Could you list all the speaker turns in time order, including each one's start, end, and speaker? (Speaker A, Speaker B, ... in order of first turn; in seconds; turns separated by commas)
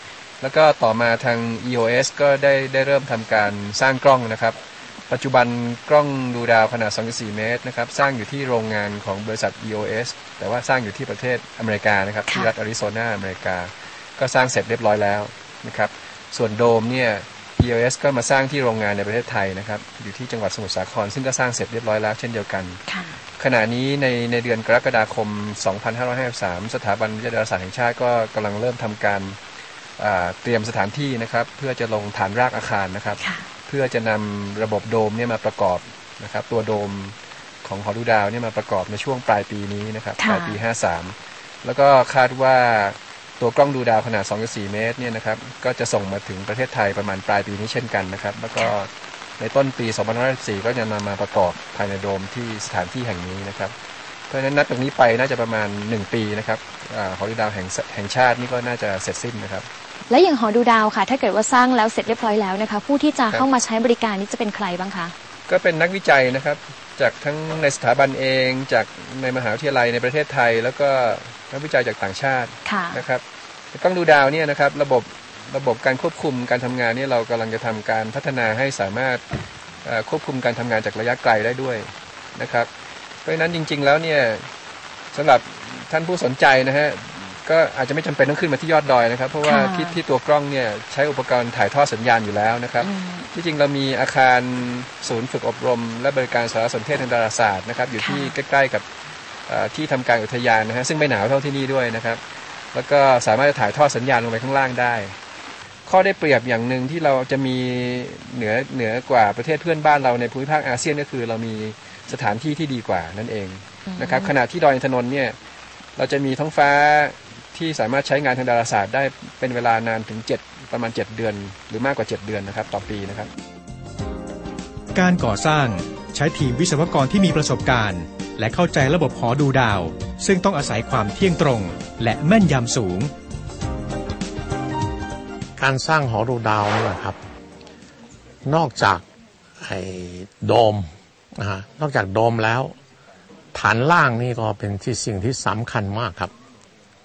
Speaker A: 0.4-4.6, Speaker A: 5.1-22.8, Speaker B: 22.9-23.1, Speaker A: 23.4-29.4, Speaker A: 30.0-53.7, Speaker B: 33.2-33.5, Speaker B: 40.2-40.6, Speaker A: 54.3-59.7, Speaker B: 60.1-65.1, Speaker A: 65.5-73.2, Speaker B: 72.7-73.0, Speaker A: 73.7-79.2, Speaker A: 79.8-82.7, Speaker A: 83.2-84.5, Speaker A: 85.1-98.8, Speaker B: 89.4-90.0, Speaker B: 92.8-93.3, Speaker B: 98.0-98.3, Speaker A: 99.5-105.2, Speaker A: 105.8-115.3, Speaker B: 113.9-114.3, Speaker A: 116.0-123.3, Speaker C: 124.9-133.1, Speaker D: 135.6-137.2, Speaker D: 138.5-139.0, Speaker D: 139.6-142.7, Speaker D: 143.5-146.3